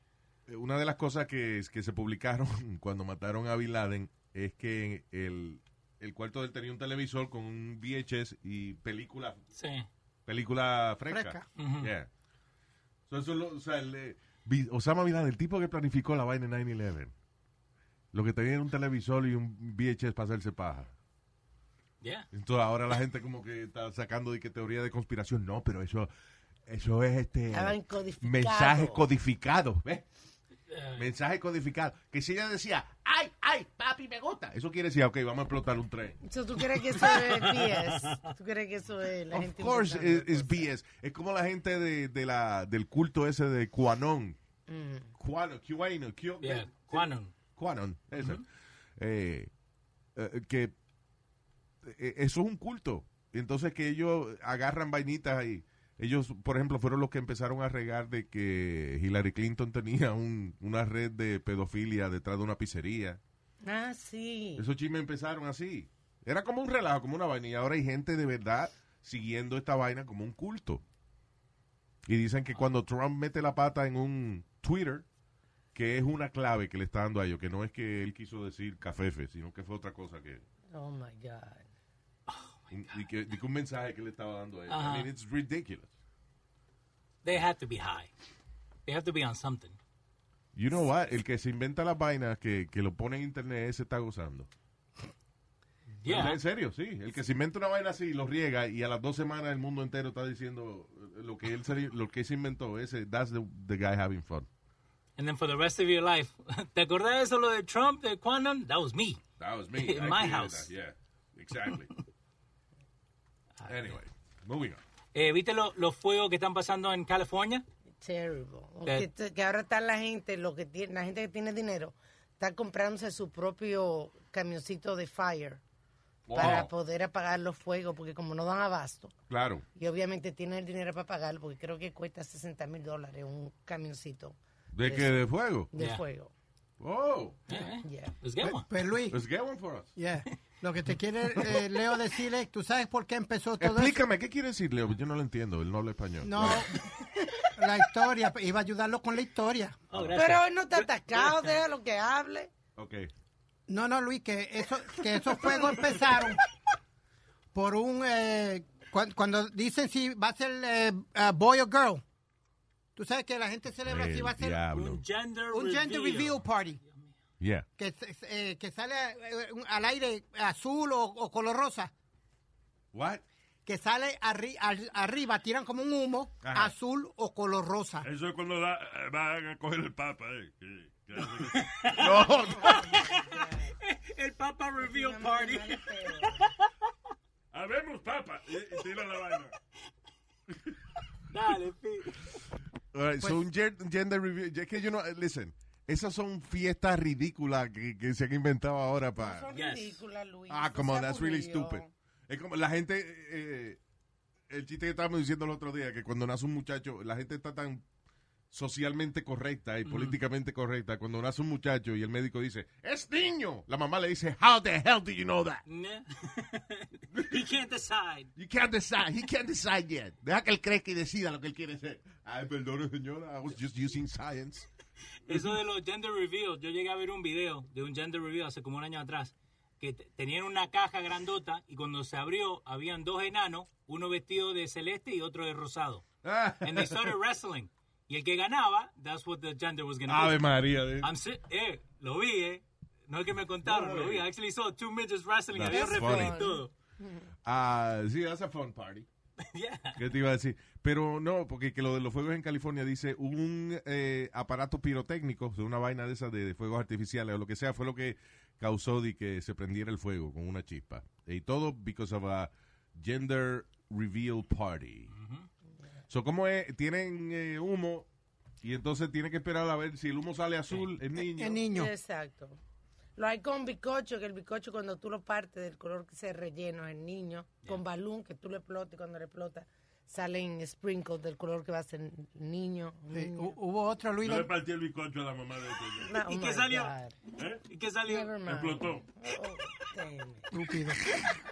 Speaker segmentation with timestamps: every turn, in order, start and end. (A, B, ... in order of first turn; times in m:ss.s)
0:00.5-0:09.4 A
0:09.6-0:09.9 B
0:10.2-0:12.1 A
0:11.1-0:11.4 C
0:11.6-0:11.9 B
0:13.1-0:17.1 A
0:18.1-0:20.9 A
0:22.0-0:22.3 B
0:22.3-0:26.1 A
0:26.7-0:30.0 A
0:27.5-0:29.0 D
0:30.7-0:31.0 B
0:31.0-0:36.2 A
0:36.2-0:40.7 D
0:37.1-0:38.2 B
0:39.3-0:44.4 A
0:44.7-0:45.1 D
0:45.2-0:48.4 A
0:46.4-0:47.3 B
0:48.2-0:48.4 B
0:49.0-0:49.5 A
0:50.2-0:50.7 A
0:51.8-1:03.2 A
1:03.6-1:04.6 D
1:04.6-1:10.8 A
1:12.0-1:15.0 A
1:15.7-1:20.4 A
1:20.7-1:21.7 D
1:22.3-1:22.8 B
1:22.7-1:25.9 A
1:24.7-1:25.1 B
1:27.2-1:28.1 B
1:28.8-1:29.8 B
1:30.5-1:34.5 A
1:36.0-1:36.4 B
1:36.0-1:44.5 A
1:45.2-1:49.2 B
1:49.4-1:51.9 A
1:49.8-1:50.7 B
1:53.6-1:54.8 A
1:55.1-1:57.6 B
1:58.0-2:05.6 D
2:06.3-2:06.7 A
2:06.3-2:09.1 D
2:09.3-2:09.6 A
2:09.8-2:16.3 D
2:14.7-2:15.7 A
2:16.8-2:17.4 A
2:17.5-2:18.6 B
2:17.8-2:18.1 D
2:18.4-2:19.9 A
2:18.7-2:19.2 C
2:20.0-2:24.0 C
2:23.6-2:26.7 A
2:26.2-2:29.8 C
2:29.9-2:30.2 A
2:29.9-2:31.5 B
2:30.1-2:32.5 D
2:32.8-2:33.1 A
2:33.7-2:36.4 C
2:37.5-2:42.0 C
2:43.0-2:44.7 C
2:43.8-2:45.0 A
2:44.7-2:47.1 B
2:45.5-2:46.8 C
2:47.4-2:47.7 A
2:47.8-2:51.9 C
2:52.9-2:53.2 A
2:53.6-2:58.1 C
2:56.4-2:56.7 A
2:58.0-3:01.9 E
3:01.6-3:06.5 B
3:01.9-3:02.9 A
3:02.6-3:03.7 D
3:04.8-3:06.5 D
3:07.5-3:09.5 E
3:11.3-3:12.2 B
3:12.9-3:19.5 A
3:19.2-3:21.9 D
3:19.5-3:20.0 B
3:20.5-3:23.8 A
3:24.5-3:27.8 A
3:28.5-3:35.6 A
3:29.8-3:30.2 B
3:35.7-3:38.3 B
3:38.4-3:44.7 A
3:45.3-3:56.0 B
3:56.2-3:57.1 A
3:56.6-4:00.4 B
4:00.1-4:01.1 A
4:01.0-4:06.7 B
4:03.7-4:04.2 A
4:05.5-4:06.5 A
4:05.6-4:07.3 D
4:07.4-4:09.1 A
4:09.4-4:10.0 B
4:10.0-4:25.1 A
4:25.1-4:25.5 B
4:26.1-4:28.1 A
4:28.6-4:31.6 A
4:31.3-4:31.9 C
4:31.7-4:32.6 D
4:33.2-4:43.6 D
4:43.1-4:44.5 C
4:44.2-4:46.1 E
4:46.0-4:47.2 D
4:46.2-4:46.9 B
4:47.4-4:47.6 E
4:47.7-4:48.3 B
4:48.0-4:50.5 D
4:48.4-4:49.0 E
4:50.5-4:51.3 C